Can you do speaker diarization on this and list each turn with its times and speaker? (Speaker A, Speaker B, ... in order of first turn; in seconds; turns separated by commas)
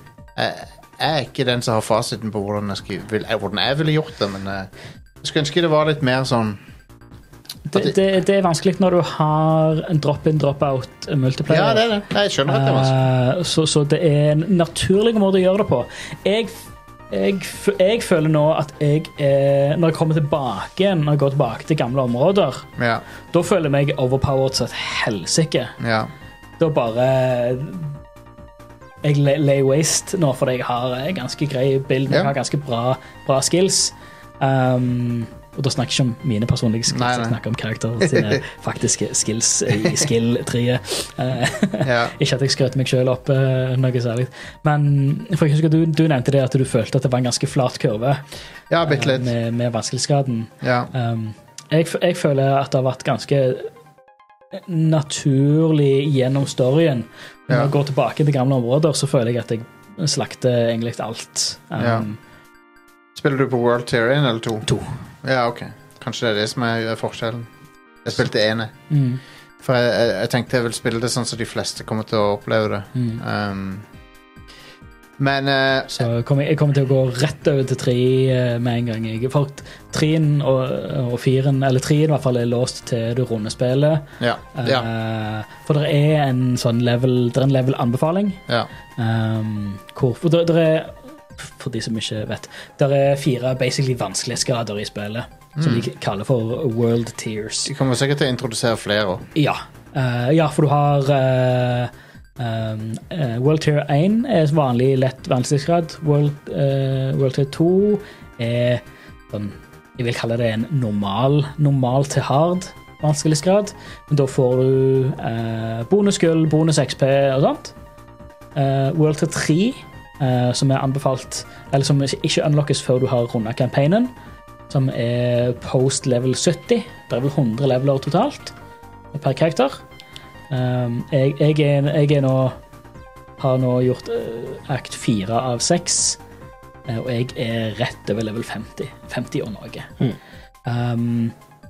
Speaker A: 0.3-4.7, Speaker A: 5.2-6.6, Speaker B: 7.7-11.8, Speaker A: 11.5-13.0, Speaker B: 12.5-22.7, Speaker A: 22.8-23.0, Speaker B: 23.3-25.8, Speaker A: 25.8-26.1, Speaker B: 26.6-27.9, Speaker B: 29.0-48.2, Speaker A: 36.9-37.4, Speaker A: 38.0-38.4, Speaker A: 41.8-42.1, Speaker A: 48.7-49.3, Speaker B: 48.8-53.7, Speaker A: 50.6-50.9, Speaker B: 54.5-62.2, Speaker A: 61.8-62.1, Speaker A: 63.1-64.7, Speaker A: 65.2-67.5, Speaker A: 68.0-68.7, Speaker B: 68.9-69.2, Speaker A: 69.6-73.8, Speaker B: 72.9-73.2, Speaker A: 75.2-76.0, Speaker B: 75.9-88.4, Speaker A: 84.2-84.9, Speaker B: 89.0-97.7, Speaker A: 95.6-95.9, Speaker A: 97.7-99.3, Speaker B: 99.3-117.7, Speaker B: 118.5-124.1, Speaker B: 124.7-128.5, Speaker B: 129.1-129.8, Speaker B: 130.5-132.6, Speaker B: 133.4-136.2, Speaker B: 136.9-139.9, Speaker B: 140.7-141.3